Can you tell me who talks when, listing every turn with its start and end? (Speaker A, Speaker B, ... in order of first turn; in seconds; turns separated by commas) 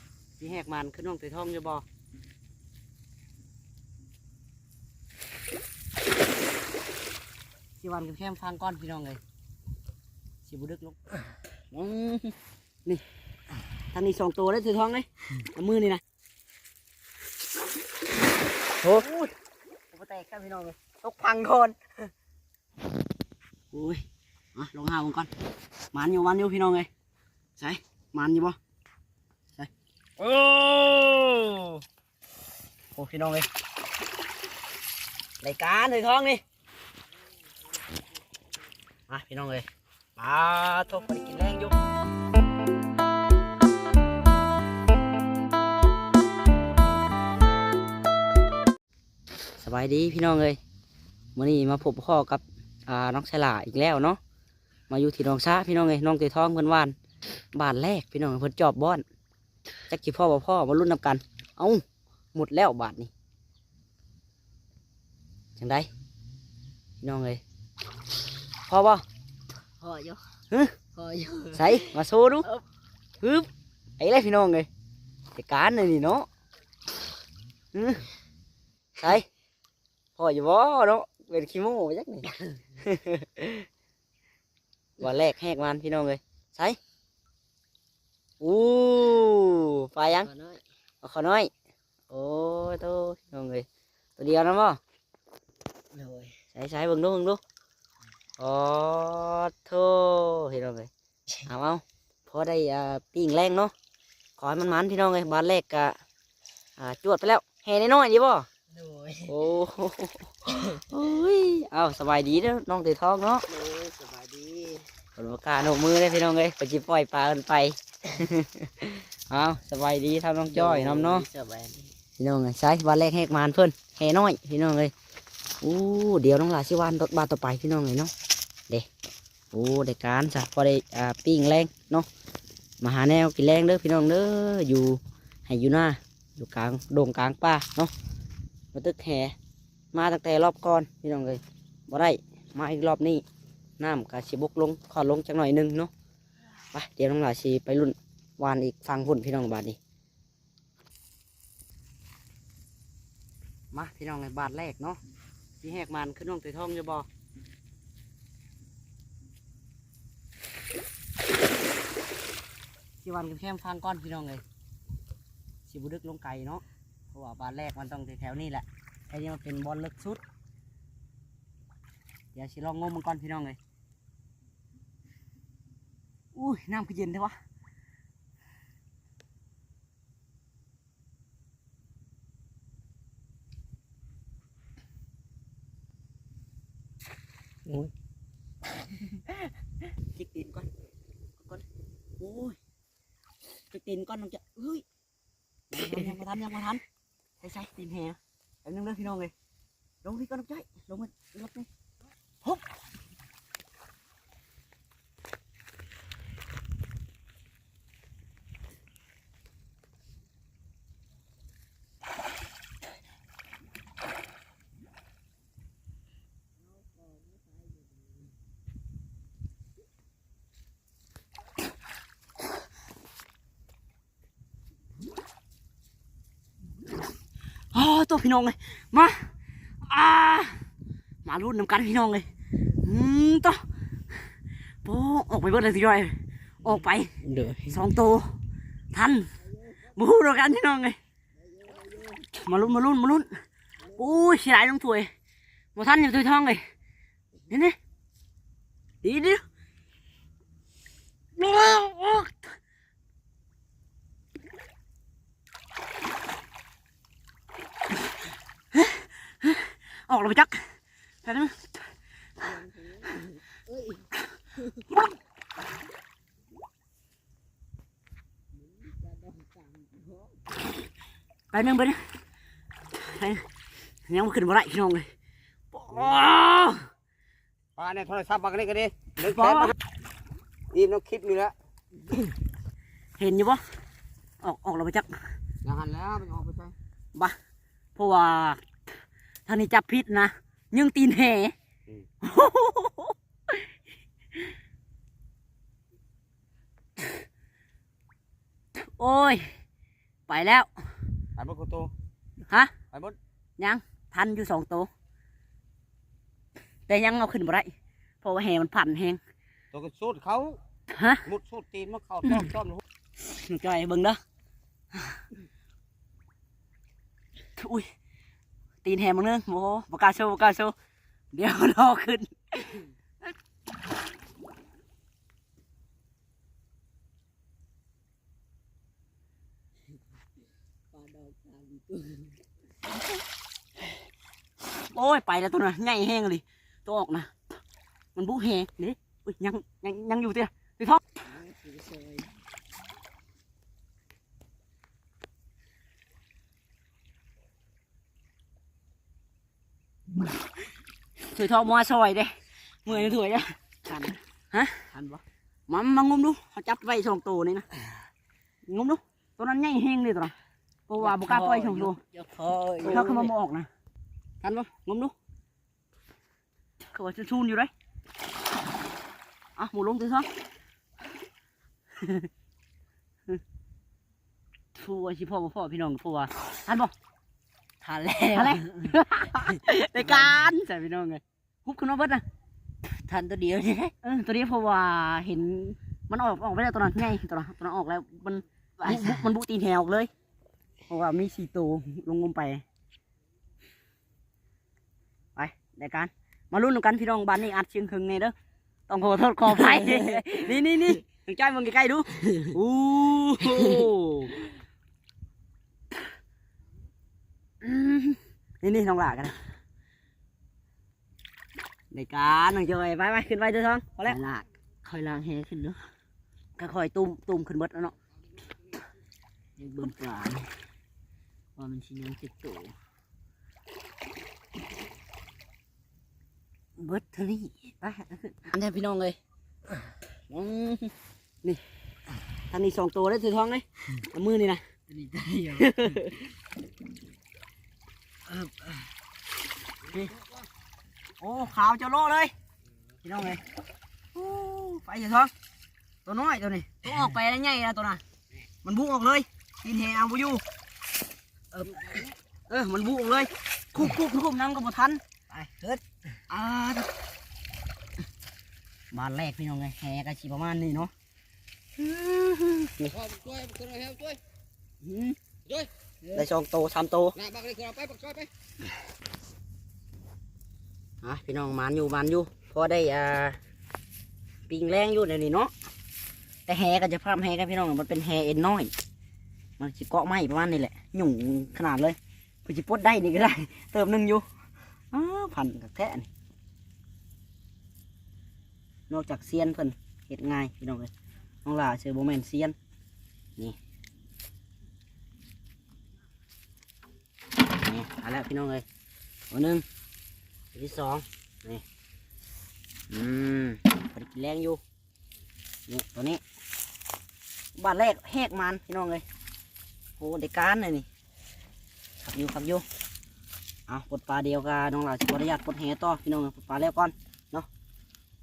Speaker A: 0.4-1.8, Speaker A: 7.8-9.2, Speaker A: 10.4-11.0, Speaker A: 11.7-12.3, Speaker A: 13.9-16.0, Speaker A: 18.8-19.3, Speaker A: 19.9-21.9, Speaker A: 23.7-24.0, Speaker A: 24.6-25.3, Speaker A: 25.9-26.9, Speaker A: 27.6-28.6, Speaker A: 29.6-31.8, Speaker A: 33.0-33.5, Speaker A: 35.4-36.4, Speaker A: 39.1-39.7, Speaker A: 40.2-41.8, Speaker A: 49.6-50.6, Speaker A: 51.4-54.2, Speaker A: 54.9-57.0, Speaker A: 57.5-59.0, Speaker A: 59.9-61.8, Speaker A: 62.3-63.1, Speaker A: 65.6-65.9, Speaker A: 67.0-67.4, Speaker A: 68.7-69.0, Speaker B: 69.8-70.2, Speaker B: 70.9-72.7, Speaker A: 71.5-72.5, Speaker A: 73.2-73.5, Speaker A: 74.0-74.7, Speaker A: 75.3-76.3, Speaker A: 77.7-78.1, Speaker A: 79.0-79.3, Speaker A: 80.2-83.7, Speaker A: 85.0-86.8, Speaker A: 88.4-90.3, Speaker B: 90.2-90.6, Speaker A: 91.0-91.5, Speaker A: 92.1-93.7, Speaker A: 94.2-94.8, Speaker B: 95.9-96.3, Speaker A: 96.5-97.4, Speaker A: 98.4-100.9, Speaker A: 101.5-103.7, Speaker A: 104.4-106.0, Speaker A: 106.8-108.5, Speaker B: 108.7-109.3, Speaker A: 109.2-113.5, Speaker B: 113.5-114.9, Speaker A: 115.2-121.3, Speaker B: 120.5-121.9, Speaker A: 122.2-124.9, Speaker A: 125.6-128.1, Speaker A: 129.5-132.1, Speaker A: 132.8-137.9, Speaker A: 138.7-139.3, Speaker A: 139.9-143.2, Speaker A: 143.8-145.9, Speaker A: 146.7-149.8, Speaker A: 153.7-155.0, Speaker A: 155.6-157.1, Speaker A: 163.0-164.4, Speaker A: 165.7-170.2, Speaker A: 172.3-173.6, Speaker A: 176.3-177.4, Speaker B: 187.7-187.9, Speaker A: 190.1-190.7, Speaker A: 191.4-191.6, Speaker A: 192.2-192.6, Speaker A: 193.7-194.8, Speaker A: 195.7-196.8, Speaker A: 197.4-199.3, Speaker A: 200.0-201.7, Speaker A: 227.7-230.7, Speaker A: 231.2-233.6, Speaker A: 234.8-238.3, Speaker B: 237.2-237.8, Speaker A: 238.9-241.0, Speaker B: 241.5-242.2, Speaker A: 242.3-243.3, Speaker A: 243.9-245.1, Speaker A: 245.8-246.6, Speaker A: 247.5-247.8, Speaker A: 249.0-249.4, Speaker A: 251.4-252.5, Speaker A: 258.7-260.7, Speaker A: 261.2-261.8, Speaker B: 262.5-264.1, Speaker B: 268.8-270.4, Speaker A: 271.5-272.1, Speaker A: 272.9-273.5, Speaker A: 274.1-275.1, Speaker A: 275.7-276.9, Speaker C: 277.8-279.7, Speaker A: 279.2-279.7, Speaker C: 280.7-281.6, Speaker A: 283.2-283.6, Speaker A: 284.4-285.3, Speaker C: 285.6-286.7, Speaker A: 288.0-288.6, Speaker A: 289.5-291.6, Speaker A: 292.2-293.7, Speaker A: 298.8-299.6, Speaker A: 300.3-300.7, Speaker C: 301.4-301.9, Speaker A: 302.5-302.7, Speaker C: 302.9-303.2, Speaker A: 303.6-304.9, Speaker A: 306.9-309.2, Speaker C: 309.7-310.6, Speaker A: 310.9-311.3, Speaker C: 311.3-312.8, Speaker A: 313.2-314.2, Speaker A: 317.6-317.9, Speaker A: 318.8-320.7, Speaker A: 321.3-322.9, Speaker B: 330.9-332.4, Speaker A: 334.7-337.6, Speaker A: 338.1-341.0, Speaker B: 341.3-342.3, Speaker A: 351.2-353.6, Speaker B: 352.9-353.2, Speaker B: 353.9-354.2, Speaker A: 354.5-355.0, Speaker B: 354.9-355.2, Speaker A: 355.7-357.7, Speaker A: 358.7-360.3, Speaker A: 360.9-362.0, Speaker B: 361.0-363.3, Speaker A: 362.8-363.7, Speaker A: 364.4-365.1, Speaker A: 366.9-367.7, Speaker A: 369.6-370.3, Speaker A: 372.0-372.3, Speaker A: 374.8-376.9, Speaker B: 377.8-380.4, Speaker A: 378.3-382.2, Speaker B: 382.9-383.9, Speaker A: 384.0-390.1, Speaker A: 390.9-392.6, Speaker A: 395.4-398.3, Speaker A: 398.9-404.5, Speaker B: 403.4-403.9, Speaker A: 407.6-409.4, Speaker A: 411.9-414.2, Speaker B: 414.1-415.8, Speaker A: 416.6-417.9, Speaker A: 419.6-420.5, Speaker A: 421.6-422.7, Speaker A: 426.8-429.2, Speaker A: 430.3-431.6, Speaker A: 432.5-434.8, Speaker B: 434.9-435.8, Speaker A: 435.4-436.3, Speaker A: 438.3-438.7, Speaker A: 439.9-440.2, Speaker A: 441.2-442.3, Speaker A: 443.0-443.4, Speaker A: 444.1-445.3, Speaker A: 446.1-448.0, Speaker A: 448.6-450.4, Speaker A: 451.6-456.9, Speaker B: 451.6-452.1, Speaker A: 458.9-460.9, Speaker A: 461.8-463.0, Speaker C: 462.9-464.2, Speaker A: 464.9-465.2, Speaker A: 466.1-467.2, Speaker C: 467.2-468.3, Speaker A: 471.0-473.4, Speaker A: 474.5-475.5, Speaker A: 476.5-478.7, Speaker A: 479.6-484.2, Speaker A: 484.9-486.1, Speaker A: 488.9-490.9, Speaker A: 491.4-492.6, Speaker A: 497.5-498.6, Speaker A: 499.3-499.6, Speaker A: 500.5-501.6, Speaker A: 502.9-504.6, Speaker A: 505.7-506.2, Speaker A: 507.6-509.0, Speaker A: 510.0-510.9, Speaker A: 512.0-512.6, Speaker A: 513.7-517.5